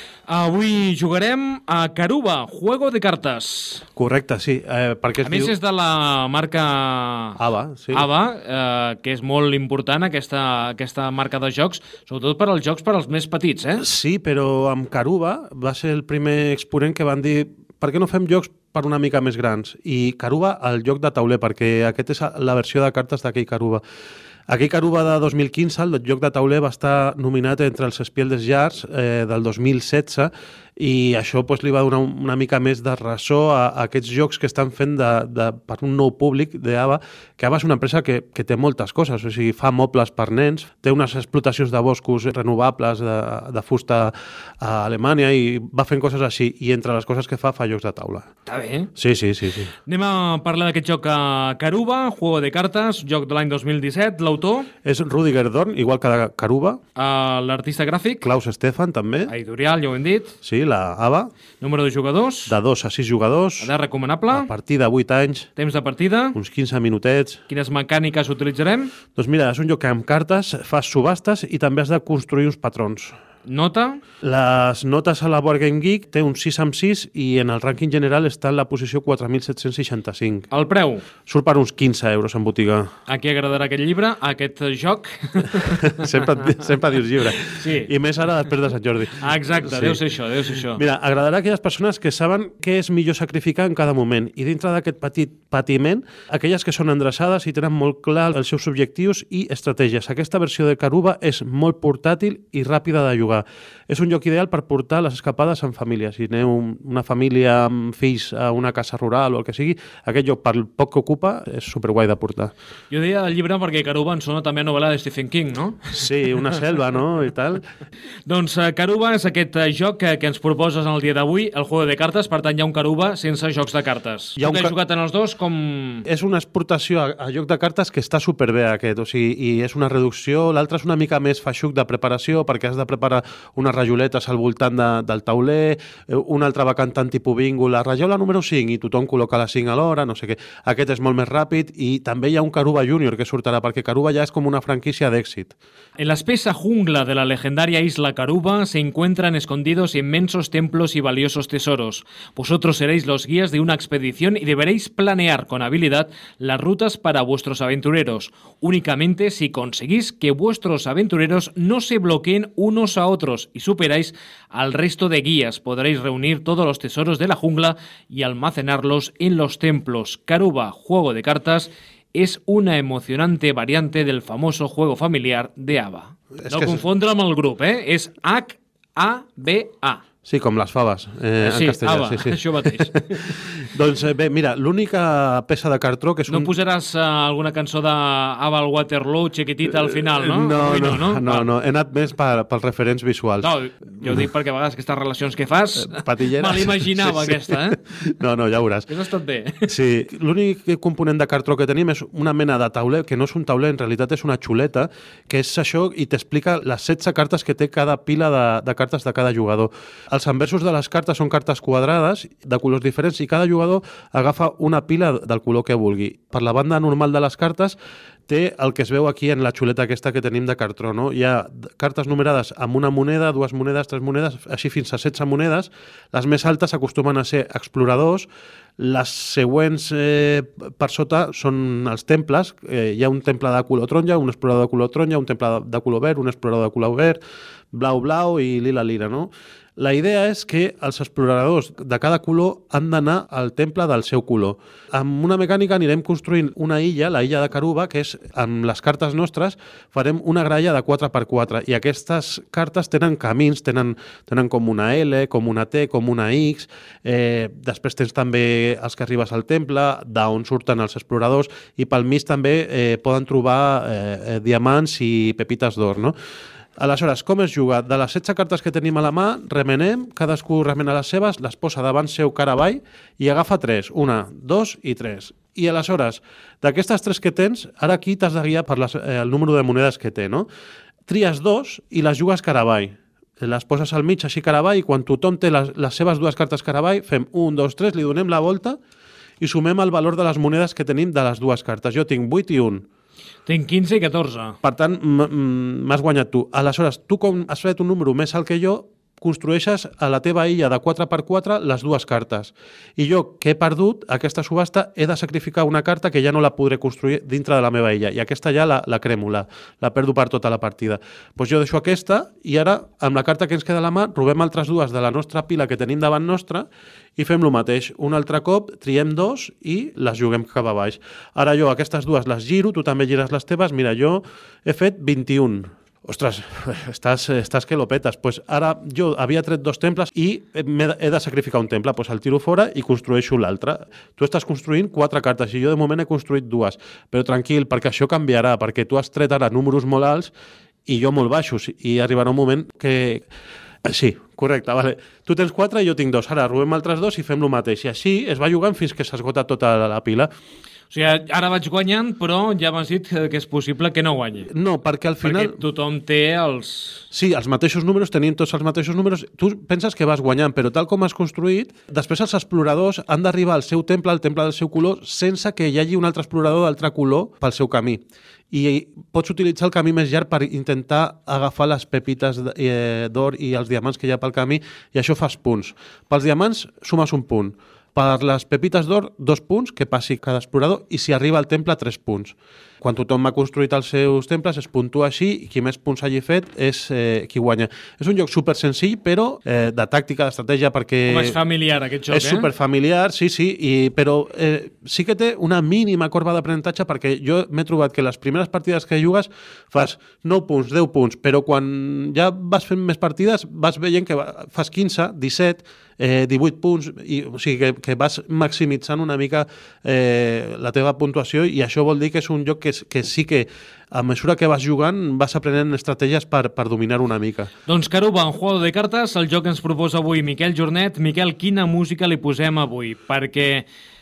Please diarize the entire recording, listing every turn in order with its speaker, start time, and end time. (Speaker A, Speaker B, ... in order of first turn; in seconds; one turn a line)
Speaker A: 0.3-3.8
Speaker B: 4.0-5.5
Speaker A: 5.2-7.4
Speaker B: 7.4-8.1
Speaker A: 7.9-13.8
Speaker B: 13.8-23.8
Speaker B: 24.5-48.3
Speaker A: 48.5-48.9
Speaker B: 49.0-49.7
Speaker A: 49.9-54.7
Speaker B: 54.8-56.8
Speaker A: 57.0-58.3
Speaker B: 58.2-59.3
Speaker A: 59.3-60.3
Speaker B: 60.4-61.3
Speaker A: 61.6-62.5
Speaker B: 62.5-63.7
Speaker A: 63.6-64.5
Speaker B: 64.3-65.5
Speaker A: 65.5-66.3
Speaker B: 66.3-67.4
Speaker A: 67.5-68.9
Speaker B: 69.1-73.2
Speaker A: 73.5-74.0
Speaker B: 74.2-80.5
Speaker A: 80.5-81.0
Speaker B: 81.2-82.9
Speaker A: 83.1-86.2
Speaker B: 85.7-90.0
Speaker A: 87.4-87.9
Speaker A: 89.2-90.8
Speaker B: 90.7-112.5
Speaker A: 112.9-116.4
Speaker B: 116.0-117.6
Speaker A: 118.2-126.0
Speaker B: 124.4-124.7
Speaker B: 126.0-145.5
Speaker A: 146.0-180.0
Speaker B: 176.4-176.8
Speaker B: 180.2-186.5
Speaker A: 181.4-183.4
Speaker A: 186.3-191.5
Speaker B: 189.7-193.5
Speaker A: 193.4-197.8
Speaker B: 195.8-198.9
Speaker A: 198.9-199.7
Speaker B: 199.7-217.8
Speaker B: 218.3-237.2
Speaker B: 237.7-266.1
Speaker B: 266.8-280.5
Speaker B: 281.1-288.8
Speaker B: 289.4-292.9
Speaker A: 293.4-294.6
Speaker B: 294.6-340.3
Speaker B: 340.9-343.2
Speaker B: 343.8-350.3
Speaker A: 350.9-354.5
Speaker B: 354.5-355.6
Speaker A: 355.2-357.1
Speaker B: 357.1-391.4
Speaker A: 391.1-392.5
Speaker B: 392.1-417.5
Speaker A: 417.6-423.6